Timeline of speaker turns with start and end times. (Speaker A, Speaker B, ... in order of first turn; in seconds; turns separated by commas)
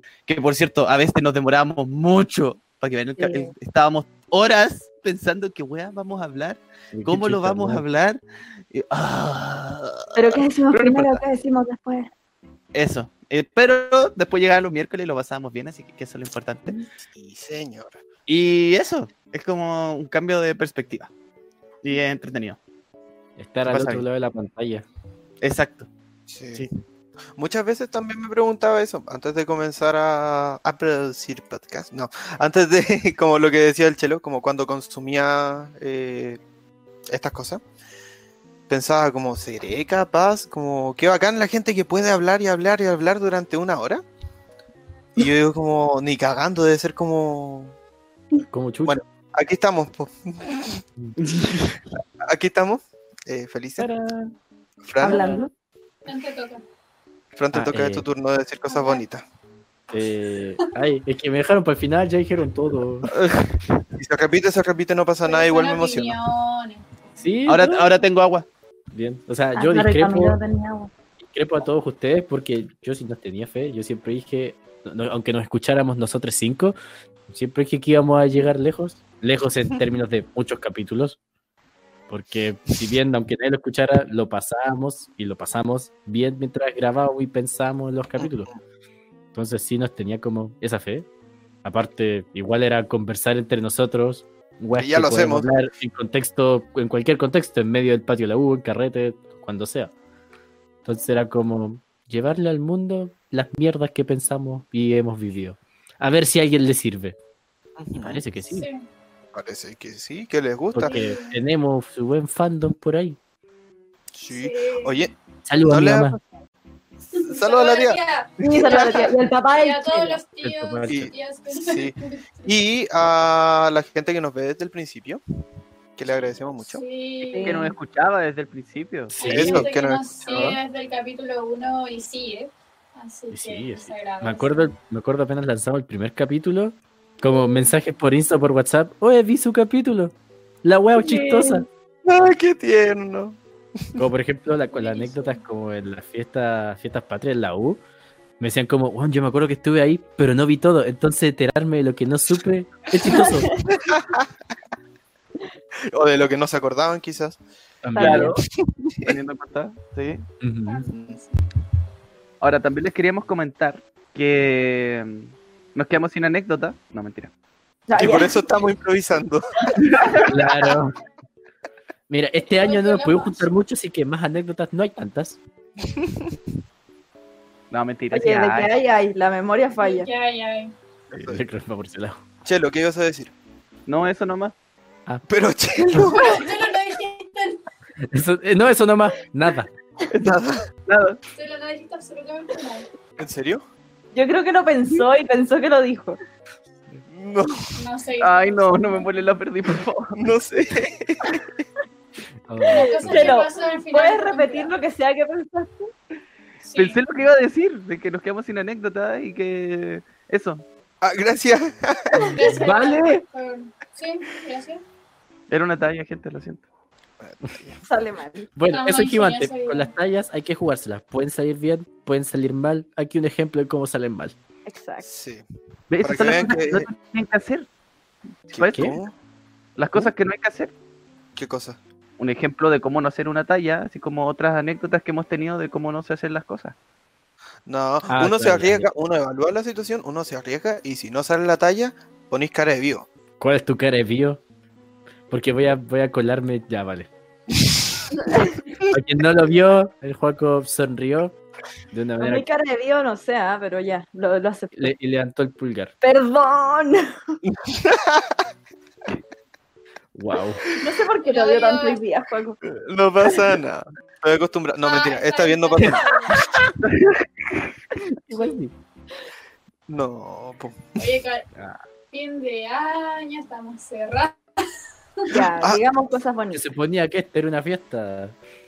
Speaker A: 0.3-11.2, Speaker B: 3.2-3.5, Speaker C: 6.9-7.8, Speaker B: 10.2-12.1, Speaker A: 12.7-16.8, Speaker D: 17.0-18.0, Speaker A: 18.3-21.1, Speaker A: 21.8-22.6, Speaker C: 23.4-24.9, Speaker A: 23.7-24.1, Speaker A: 25.4-25.9, Speaker D: 26.3-26.7, Speaker D: 27.4-36.4, Speaker D: 37.1-37.6, Speaker D: 38.7-44.0, Speaker D: 45.2-47.8, Speaker C: 48.5-49.0, Speaker D: 48.9-50.8, Speaker A: 51.2-51.7, Speaker D: 52.3-53.9, Speaker C: 53.8-54.3, Speaker D: 54.8-55.3, Speaker B: 55.0-55.5, Speaker C: 55.1-55.4, Speaker E: 56.1-56.6, Speaker D: 57.4-59.2, Speaker C: 57.5-58.1, Speaker E: 58.7-59.0, Speaker C: 59.9-63.1, Speaker D: 64.0-66.2, Speaker E: 65.2-66.9, Speaker C: 67.2-67.8, Speaker A: 67.5-68.5, Speaker C: 68.9-70.4, Speaker B: 69.5-70.9, Speaker C: 71.2-76.8, Speaker C: 77.3-81.2, Speaker C: 82.1-88.5, Speaker D: 88.2-88.6, Speaker C: 89.3-91.1, Speaker C: 91.6-99.9, Speaker D: 94.8-95.5, Speaker C: 100.9-107.2, Speaker D: 107.8-108.2, Speaker C: 108.0-108.7, Speaker E: 108.5-108.8, Speaker D: 109.3-111.0, Speaker C: 110.7-113.2, Speaker E: 110.8-111.4, Speaker D: 114.1-115.1, Speaker E: 114.3-115.0, Speaker C: 115.5-116.2, Speaker D: 115.7-116.2, Speaker E: 117.1-122.5, Speaker D: 117.3-118.0, Speaker B: 118.4-120.2, Speaker C: 120.4-121.1, Speaker D: 120.9-125.2, Speaker D: 126.0-126.8, Speaker E: 126.7-127.6, Speaker B: 127.2-127.8, Speaker A: 127.4-129.7, Speaker E: 129.2-134.7, Speaker C: 129.2-129.6, Speaker D: 129.2-130.6, Speaker A: 130.2-130.6, Speaker C: 133.3-141.7, Speaker B: 141.0-141.7, Speaker D: 142.1-143.4, Speaker C: 144.0-147.8, Speaker E: 144.7-145.4, Speaker C: 148.4-153.5, Speaker B: 153.1-153.3, Speaker D: 153.8-154.3, Speaker D: 155.9-157.4, Speaker C: 157.8-158.3, Speaker B: 157.9-158.4, Speaker A: 158.0-158.4, Speaker D: 158.8-159.2, Speaker A: 159.0-160.2, Speaker C: 160.4-160.8, Speaker E: 160.7-161.4, Speaker D: 160.9-161.2, Speaker A: 162.4-167.3, Speaker B: 167.9-168.4, Speaker D: 167.9-169.7, Speaker A: 169.9-170.2, Speaker C: 170.3-171.0, Speaker C: 172.1-175.4, Speaker E: 172.5-173.5, Speaker A: 177.7-178.8, Speaker B: 178.1-180.1, Speaker E: 179.8-180.7, Speaker D: 181.1-181.4, Speaker C: 181.2-182.2, Speaker D: 182.4-183.3, Speaker A: 183.9-184.5, Speaker D: 185.3-186.5, Speaker E: 186.1-187.6, Speaker C: 188.1-189.7, Speaker D: 190.1-190.6, Speaker A: 190.9-191.2, Speaker E: 191.3-192.9, Speaker D: 193.2-193.6, Speaker B: 194.1-196.2, Speaker D: 197.1-197.7, Speaker E: 197.8-199.1, Speaker A: 198.2-200.2, Speaker D: 200.2-201.5, Speaker C: 202.5-203.3, Speaker E: 202.6-204.7, Speaker B: 202.7-205.9, Speaker E: 206.6-207.0, Speaker A: 206.7-210.6, Speaker D: 211.0-212.3, Speaker B: 212.2-212.5, Speaker E: 212.3-214.8, Speaker C: 212.4-213.2, Speaker A: 215.5-216.7, Speaker D: 217.2-217.8, Speaker B: 217.8-218.5, Speaker C: 218.6-224.3, Speaker E: 218.7-219.9, Speaker B: 224.7-225.1, Speaker D: 225.0-225.4, Speaker A: 225.9-227.7, Speaker D: 226.0-226.9, Speaker A: 228.5-229.0, Speaker D: 228.5-229.1, Speaker C: 228.6-229.0, Speaker A: 229.8-230.7, Speaker D: 231.4-231.8, Speaker A: 232.2-236.8, Speaker D: 237.7-243.1, Speaker C: 238.1-238.9, Speaker C: 243.4-244.4, Speaker C: 245.3-247.1, Speaker B: 248.3-248.6, Speaker C: 248.9-251.4, Speaker C: 251.9-252.5, Speaker B: 252.2-254.9, Speaker C: 254.7-255.9, Speaker B: 256.0-257.0, Speaker D: 257.4-258.4, Speaker C: 260.1-260.6, Speaker B: 260.8-262.6, Speaker E: 261.2-262.0, Speaker D: 262.8-266.1, Speaker E: 264.8-266.4, Speaker A: 266.8-267.6, Speaker C: 268.3-268.7, Speaker D: 269.9-270.9, Speaker E: 271.0-271.5, Speaker E: 272.1-274.4, Speaker B: 275.3-276.6, Speaker C: 276.5-278.4